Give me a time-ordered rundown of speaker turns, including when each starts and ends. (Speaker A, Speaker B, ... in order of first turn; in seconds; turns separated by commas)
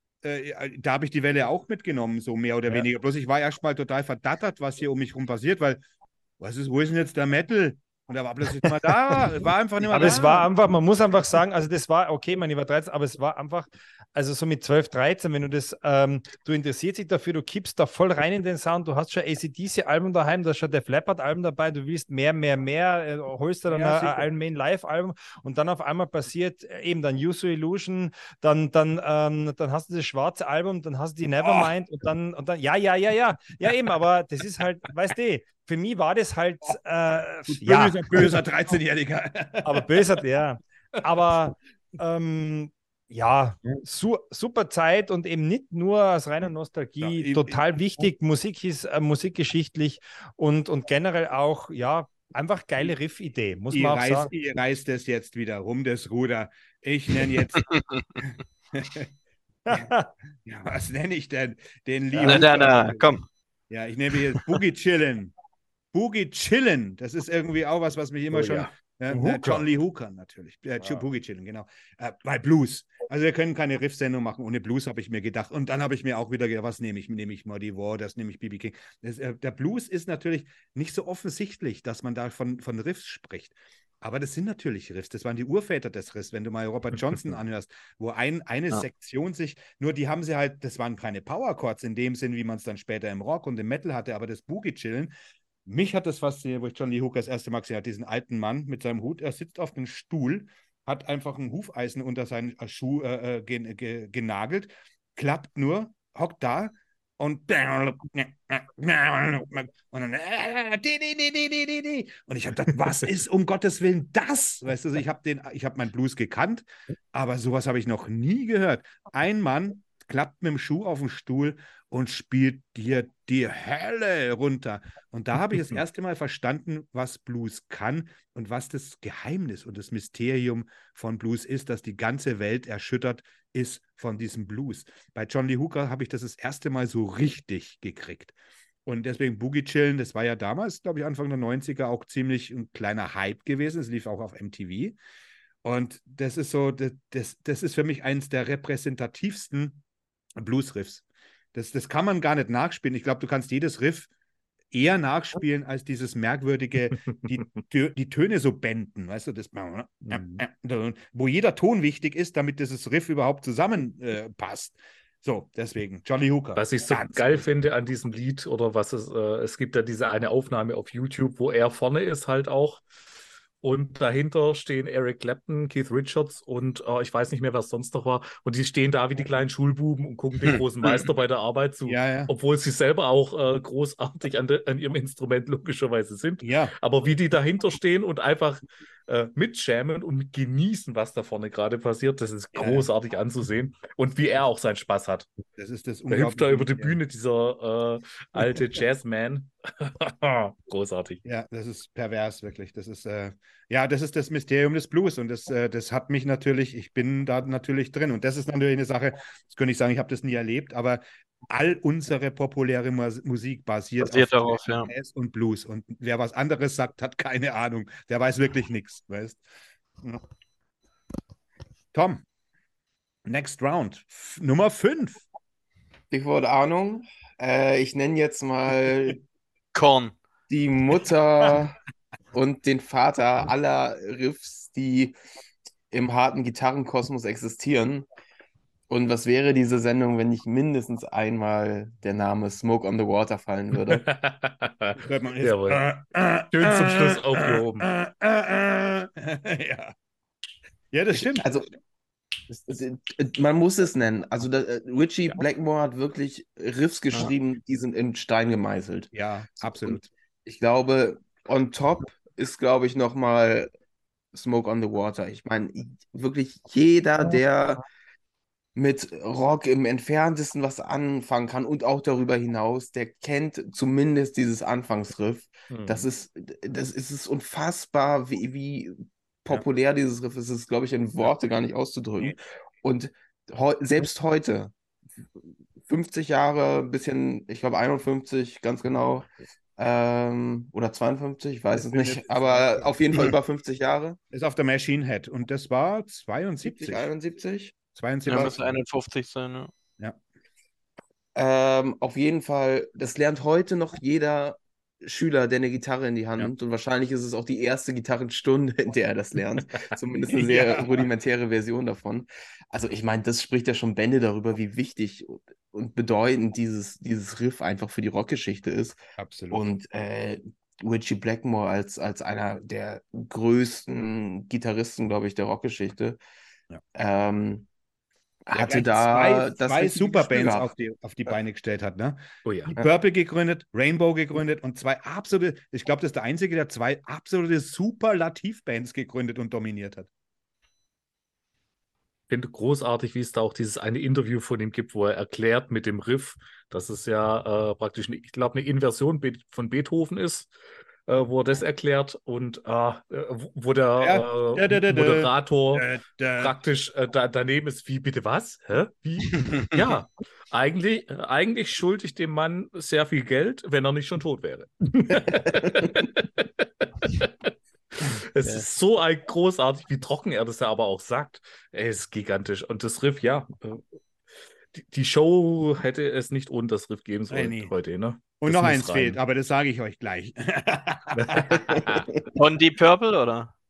Speaker A: 0.2-5.8, Speaker A: 6.4-10.5, Speaker B: 9.9-38.4, Speaker A: 23.7-24.3, Speaker A: 31.4-31.7, Speaker A: 33.6-33.9, Speaker A: 37.5-40.2, Speaker B: 39.6-54.3, Speaker A: 47.0-48.1, Speaker A: 53.7-57.7, Speaker C: 57.5-58.1, Speaker A: 58.2-59.1, Speaker B: 59.7-60.1, Speaker A: 60.4-63.2, Speaker C: 62.2-63.2, Speaker A: 63.7-65.3, Speaker A: 65.9-95.1, Speaker D: 68.3-69.6, Speaker A: 95.7-138.3, Speaker A: 138.8-144.9, Speaker A: 145.6-149.8, Speaker A: 150.4-154.1, Speaker A: 154.7-167.4, Speaker B: 160.1-160.4, Speaker D: 166.6-172.8, Speaker D: 173.6-195.3, Speaker A: 181.8-182.3, Speaker A: 186.4-186.7, Speaker A: 192.5-192.9, Speaker A: 195.6-197.0, Speaker D: 196.1-201.2, Speaker A: 201.2-219.4, Speaker C: 214.0-214.9, Speaker A: 221.9-222.2, Speaker A: 223.2-225.2, Speaker E: 226.1-229.2, Speaker C: 229.7-230.1, Speaker E: 230.5-231.8, Speaker E: 232.3-235.2, Speaker E: 235.9-238.1, Speaker E: 238.9-244.0, Speaker D: 243.7-245.8, Speaker A: 245.0-249.9, Speaker D: 246.5-247.9, Speaker A: 250.9-251.5, Speaker E: 251.1-251.7, Speaker E: 252.5-259.1, Speaker A: 259.1-260.1, Speaker E: 259.8-263.7, Speaker E: 264.3-267.8, Speaker E: 268.8-284.7, Speaker D: 275.7-276.1, Speaker E: 285.8-294.2, Speaker A: 291.9-293.4, Speaker A: 294.3-297.1, Speaker E: 296.6-297.7, Speaker A: 297.9-298.7, Speaker C: 298.2-299.7, Speaker E: 301.3-319.0, Speaker A: 310.3-310.9, Speaker A: 319.2-319.6, Speaker E: 319.5-326.2, Speaker E: 326.9-327.7, Speaker E: 328.5-330.7, Speaker A: 328.5-332.2, Speaker D: 332.4-332.7, Speaker A: 332.7-340.1, Speaker D: 342.3-350.5, Speaker D: 351.1-373.9, Speaker A: 354.0-356.6, Speaker D: 374.7-379.2, Speaker A: 377.3-377.7, Speaker A: 378.3-381.9, Speaker D: 381.1-382.1, Speaker E: 381.6-382.0, Speaker C: 382.3-383.5